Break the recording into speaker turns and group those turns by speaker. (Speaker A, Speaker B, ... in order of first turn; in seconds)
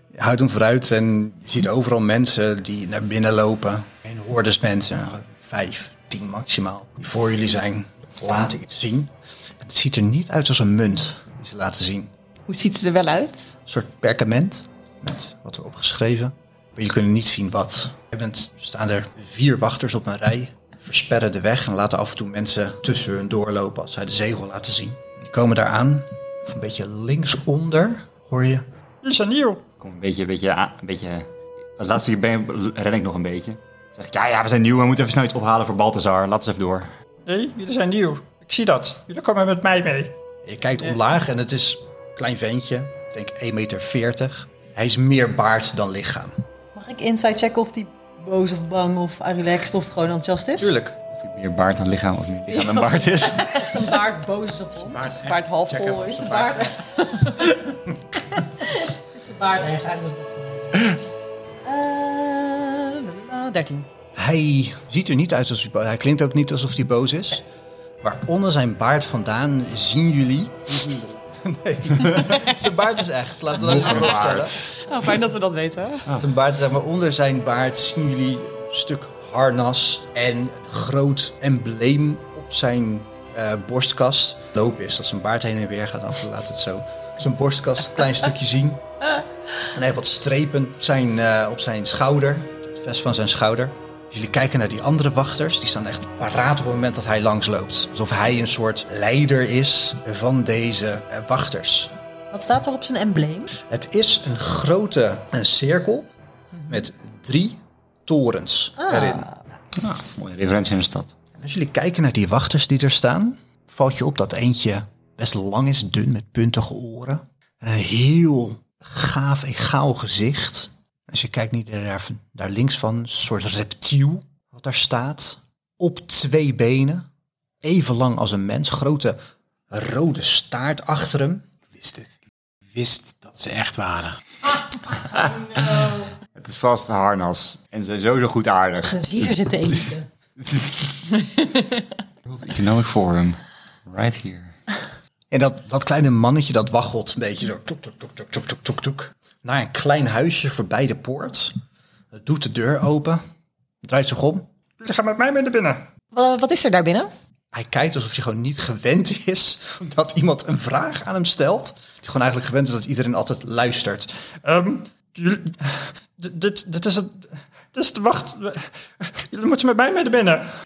Speaker A: 0.1-12.1, 13.7-28.7, 40.4-46.4, 50.6-51.0, 64.2-67.4, 68.0-70.8, 71.4-74.6, 76.2-88.8, 89.6-101.9, 103.7-106.1, 106.7-109.3, 111.4-127.1, 127.6-129.2, 129.7-131.5, 145.3-151.6, 152.1-153.2, 153.8-154.5, 157.5-164.1
Speaker B: 12.5-13.5, 55.0-56.8, 73.9-76.1, 156.1-157.1
Speaker C: 29.0-29.6, 37.2-40.1, 154.8-155.8, 164.4-170.5
Speaker D: 29.8-36.9, 51.2-53.9, 73.6-74.7, 109.8-111.1, 135.4-139.7, 140.4-140.8, 142.2-144.5
Speaker E: 46.7-50.8, 52.5-55.1, 56.0-57.6, 58.6-61.0, 61.6-63.9, 102.3-103.6, 106.5-106.8, 108.8-109.4, 135.1-136.1, 138.8-140.1
Speaker F: 54.8-56.7, 70.7-71.2, 131.7-132.1, 132.7-134.2